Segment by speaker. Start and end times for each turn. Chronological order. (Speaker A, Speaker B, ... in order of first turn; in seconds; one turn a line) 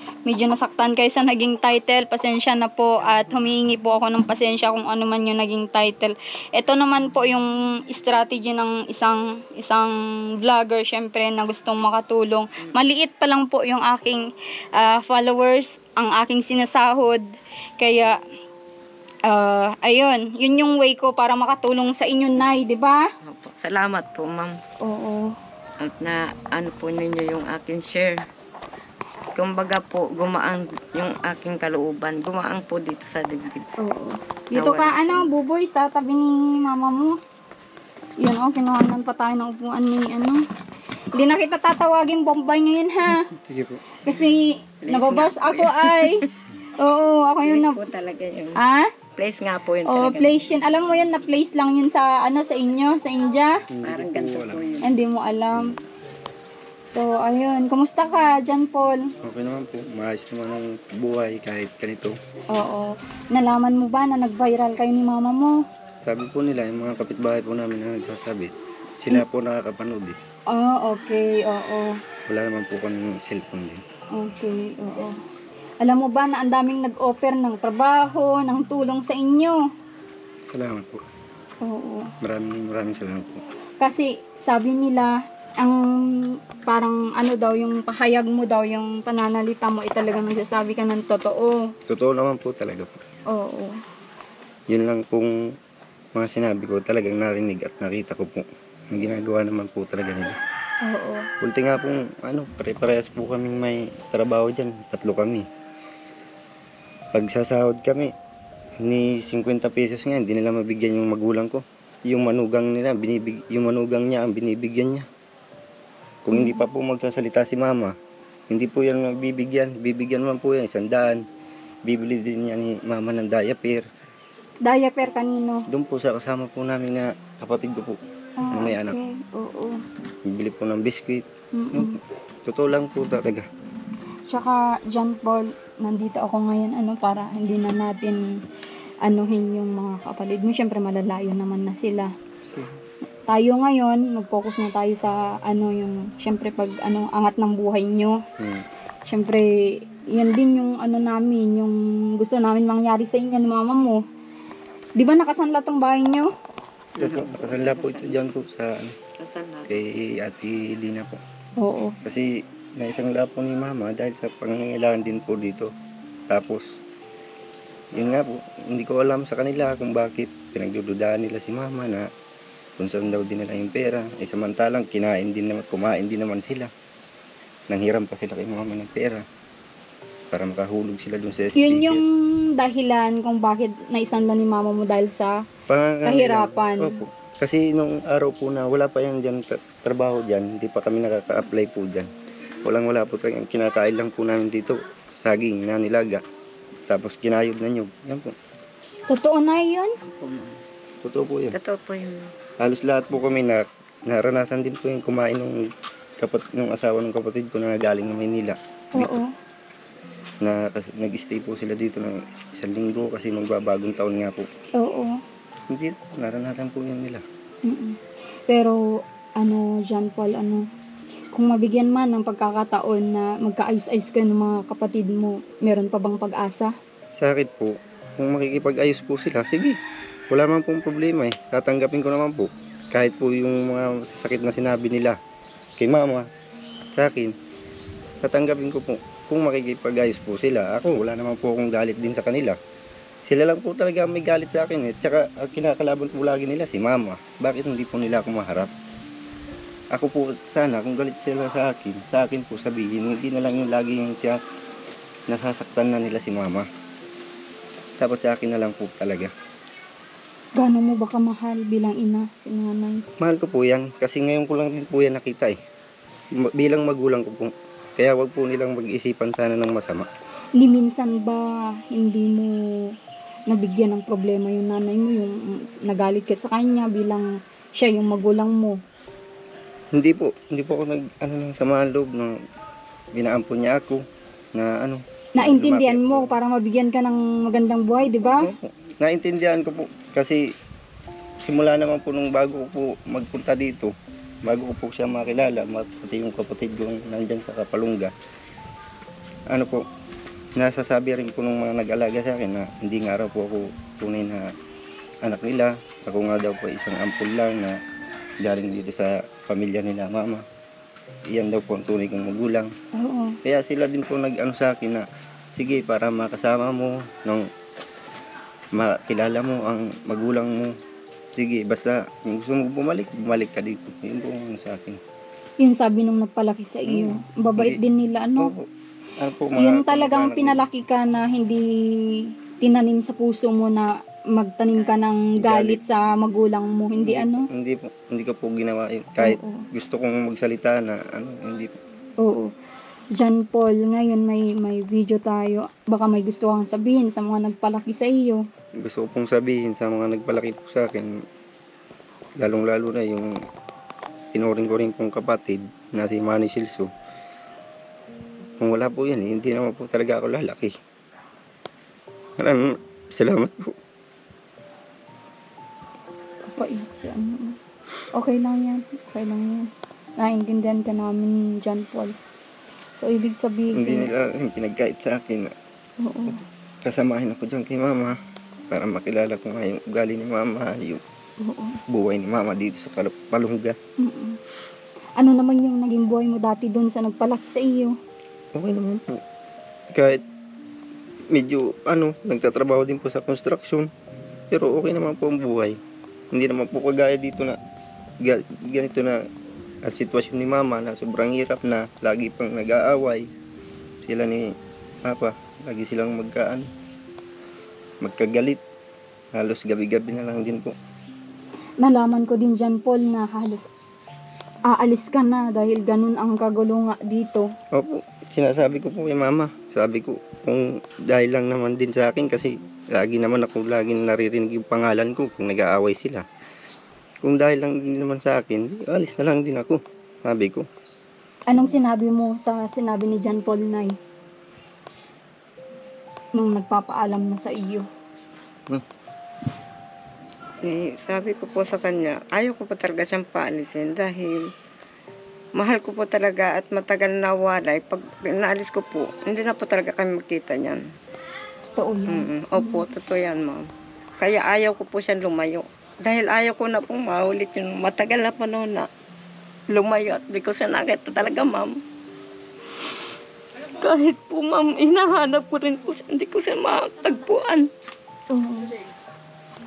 Speaker A: 0.2-17.3
Speaker A: 17.8-18.2
Speaker A: 19.3-23.1
Speaker B: 23.2-24.6
Speaker A: 24.8-25.4
Speaker B: 25.8-28.2
Speaker B: 29.4-33.8
Speaker A: 33.8-37.2
Speaker B: 34.5-35.3
Speaker A: 38.2-40.4
Speaker A: 41.1-43.3
Speaker C: 43.3-43.8
Speaker A: 44.0-46.3
Speaker B: 44.8-46.3
Speaker A: 46.8-47.8
Speaker B: 47.5-48.6
Speaker A: 48.6-48.9
Speaker B: 49.2-50.4
Speaker A: 49.9-53.6
Speaker C: 53.7-54.6
Speaker B: 53.8-54.9
Speaker A: 54.8-55.8
Speaker A: 56.9-59.1
Speaker C: 59.2-62.1
Speaker A: 62.5-65.6
Speaker C: 66.0-70.2
Speaker A: 70.5-72.0
Speaker C: 72.3-73.8
Speaker A: 74.2-75.2
Speaker A: 75.8-79.6
Speaker C: 80.5-81.0
Speaker A: 81.6-82.1
Speaker C: 82.2-83.4
Speaker A: 83.8-91.7
Speaker C: 91.9-93.0
Speaker A: 93.3-93.8
Speaker C: 94.7-95.3
Speaker C: 96.2-100.4
Speaker A: 100.8-101.3
Speaker C: 101.4-105.5
Speaker C: 107.1-108.1
Speaker C: 108.8-115.1
Speaker C: 116.2-118.0
Speaker C: 118.5-121.2
Speaker C: 121.9-123.9
Speaker A: 124.6-125.7
Speaker C: 125.7-128.0
Speaker A: 128.4-129.8
Speaker C: 128.5-129.0
Speaker C: 130.3-133.5
Speaker A: 131.5-132.0
Speaker A: 134.3-138.3
Speaker A: 139.0-142.1
Speaker C: 142.5-142.8
Speaker A: 143.3-148.2
Speaker C: 148.4-148.7
Speaker A: 149.1-154.0
Speaker A: 155.0-156.3
Speaker B: 157.0-158.2
Speaker C: 157.0-159.0
Speaker B: 159.2-159.8
Speaker C: 159.7-161.2
Speaker A: 161.6-162.0
Speaker C: 162.1-165.7
Speaker C: 166.3-166.7
Speaker C: 167.9-172.1
Speaker C: 172.8-176.7
Speaker C: 177.7-179.2
Speaker C: 180.3-182.0
Speaker A: 181.6-185.5
Speaker C: 185.7-192.1
Speaker A: 186.1-187.0
Speaker C: 192.6-196.2
Speaker C: 196.9-198.3
Speaker A: 199.1-200.0
Speaker B: 200.1-200.6
Speaker C: 201.0-201.6
Speaker B: 201.5-202.3
Speaker C: 202.6-205.7
Speaker C: 206.2-209.1
Speaker A: 208.9-209.3
Speaker C: 210.4-214.5
Speaker A: 214.8-215.2
Speaker C: 215.7-217.2
Speaker A: 217.7-218.0
Speaker A: 218.5-218.8
Speaker A: 219.4-220.7
Speaker A: 221.3-226.7
Speaker C: 227.2-229.8
Speaker C: 230.3-235.2
Speaker C: 235.8-236.3
Speaker C: 236.9-237.3
Speaker C: 238.2-242.6
Speaker C: 243.2-248.7
Speaker C: 249.9-254.4
Speaker C: 255.3-256.7
Speaker C: 258.0-259.3
Speaker A: 260.6-263.1
Speaker C: 263.2-265.6
Speaker C: 266.4-270.1
Speaker A: 270.6-272.9
Speaker A: 273.5-278.8
Speaker C: 279.9-282.4
Speaker C: 283.1-284.0
Speaker C: 284.6-286.3
Speaker A: 285.4-288.5
Speaker C: 288.0-290.5
Speaker C: 291.4-293.9
Speaker C: 294.4-298.1
Speaker C: 299.5-299.9
Speaker C: 300.6-304.5
Speaker C: 305.2-307.8
Speaker C: 308.4-310.4
Speaker C: 311.3-312.7
Speaker A: 312.9-313.4
Speaker C: 313.4-317.5
Speaker C: 318.7-320.7
Speaker C: 321.4-325.0
Speaker A: 325.6-328.5
Speaker C: 326.9-327.8
Speaker C: 328.4-328.7
Speaker C: 329.2-330.7
Speaker A: 329.6-337.5
Speaker C: 335.4-335.8
Speaker C: 337.0-341.7
Speaker A: 339.2-339.6
Speaker A: 342.2-342.5
Speaker A: 343.2-348.4
Speaker C: 348.8-351.1
Speaker C: 352.4-353.3
Speaker C: 354.3-356.9
Speaker C: 358.6-360.8
Speaker C: 362.4-363.8
Speaker A: 366.4-367.6
Speaker A: 368.1-372.2
Speaker A: 373.0-374.1
Speaker C: 373.7-375.5
Speaker A: 376.0-376.4
Speaker C: 376.3-378.2
Speaker C: 378.7-381.0
Speaker A: 381.4-381.8
Speaker C: 381.9-383.8
Speaker A: 384.0-384.4
Speaker A: 385.2-388.0
Speaker C: 388.6-389.2
Speaker C: 389.9-390.2
Speaker C: 391.3-393.9
Speaker C: 394.5-395.8
Speaker C: 396.3-397.6
Speaker C: 398.2-399.2
Speaker C: 399.9-403.3
Speaker C: 404.0-404.4
Speaker C: 405.1-406.7
Speaker C: 408.0-408.6
Speaker C: 409.4-410.7
Speaker A: 411.8-413.7
Speaker A: 414.7-417.5
Speaker C: 417.7-426.2
Speaker C: 427.2-430.7
Speaker A: 431.5-434.0
Speaker A: 436.4-437.9
Speaker B: 440.6-444.5
Speaker B: 445.6-450.8
Speaker A: 451.7-452.8
Speaker B: 452.1-453.7
Speaker B: 454.2-458.9
Speaker B: 459.7-461.8
Speaker B: 463.8-467.7
Speaker A: 468.3-468.7